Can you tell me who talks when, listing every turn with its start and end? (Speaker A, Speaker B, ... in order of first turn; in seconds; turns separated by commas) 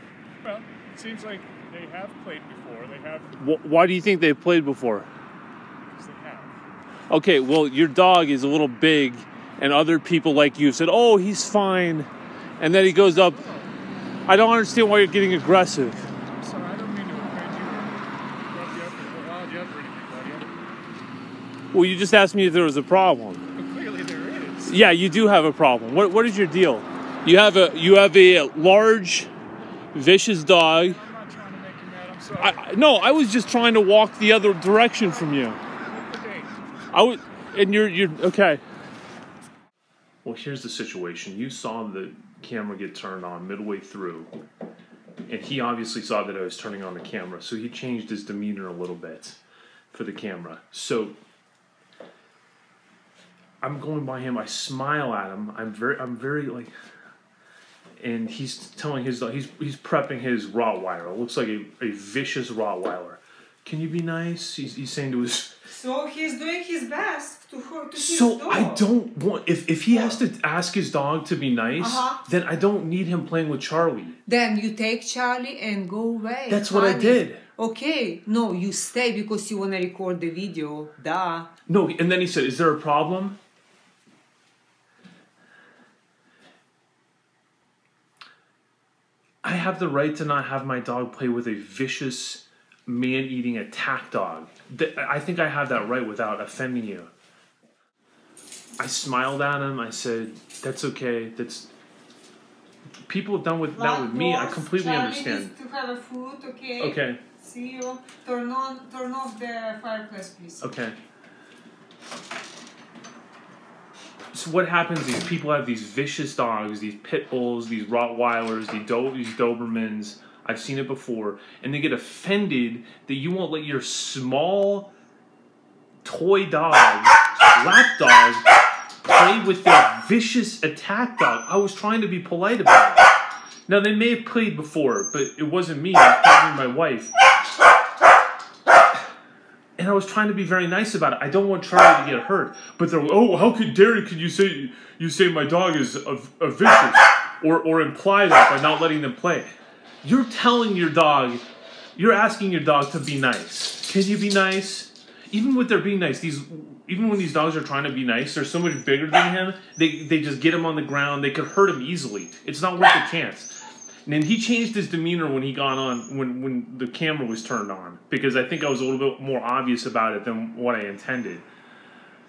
Speaker A: 0.4-3.4, Speaker B: 3.4-5.1, Speaker A: 5.9-6.5, Speaker B: 7.1-13.5, Speaker A: 12.9-13.7, Speaker B: 14.3-16.1, Speaker A: 16.3-20.5, Speaker B: 21.7-23.4, Speaker A: 23.6-24.8, Speaker B: 24.6-29.3, Speaker B: 29.9-31.0, Speaker A: 30.7-32.9, Speaker B: 32.4-35.6, Speaker A: 34.9-36.5, Speaker B: 36.9-38.6, Speaker B: 40.2-44.3, Speaker B: 45.3-49.4, Speaker B: 49.9-51.2, Speaker B: 53.6-56.7, Speaker B: 58.0-65.6, Speaker C: 65.7-68.9, Speaker B: 67.9-74.2, Speaker C: 69.9-70.2, Speaker C: 71.8-72.2, Speaker C: 74.3-81.5, Speaker B: 76.5-77.4, Speaker B: 81.7-83.4, Speaker B: 89.4-97.1, Speaker B: 98.8-101.7, Speaker B: 103.1-105.5, Speaker C: 103.7-110.7, Speaker B: 106.8-107.2, Speaker B: 110.6-111.0, Speaker B: 114.3-124.9, Speaker B: 126.0-128.5, Speaker B: 129.1-133.1, Speaker B: 133.7-137.1, Speaker B: 139.8-149.5, Speaker B: 150.0-151.4, Speaker B: 152.0-171.5